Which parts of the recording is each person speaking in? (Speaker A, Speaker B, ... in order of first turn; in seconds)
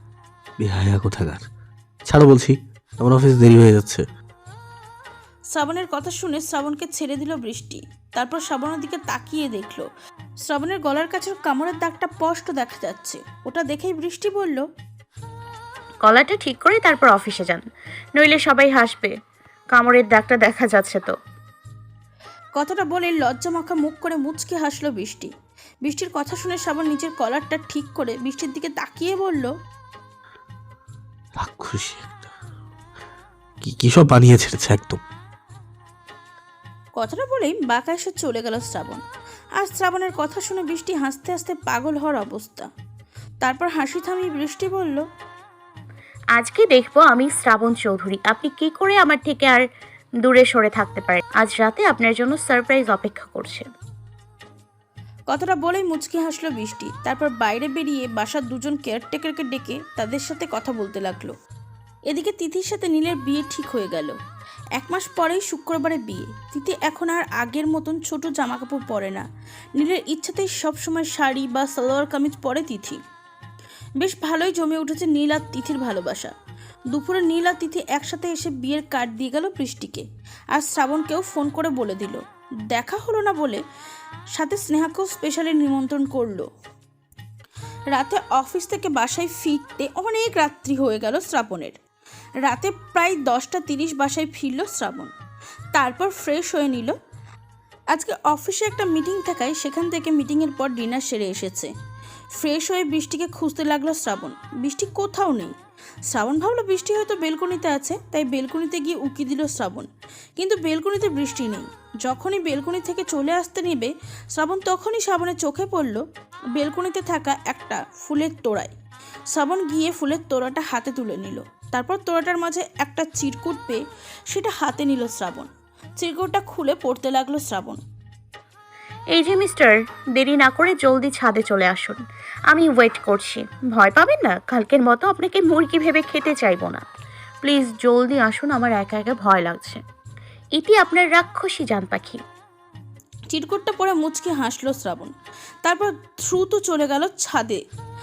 Speaker A: 0.6-1.4, 2.1-4.0, 31.4-32.3, 33.6-35.0
Speaker B: 5.5-9.9, 10.5-14.7, 22.6-25.3, 25.8-29.5, 37.0-39.0, 39.6-42.7, 43.4-45.0, 55.3-61.3, 62.1-64.2, 64.8-69.2, 69.8-73.0, 74.0-76.3, 76.9-83.6, 84.3-86.5, 87.9-91.8, 92.4-95.1, 95.7-97.0, 97.9-101.7, 102.4-105.5, 106.1-116.0, 116.6-118.7, 119.3-127.8, 143.3-147.6
Speaker C: 16.0-17.6, 18.2-19.1, 19.7-21.2, 46.4-49.6, 50.2-53.7, 129.1-136.8, 137.4-139.8, 140.6-142.2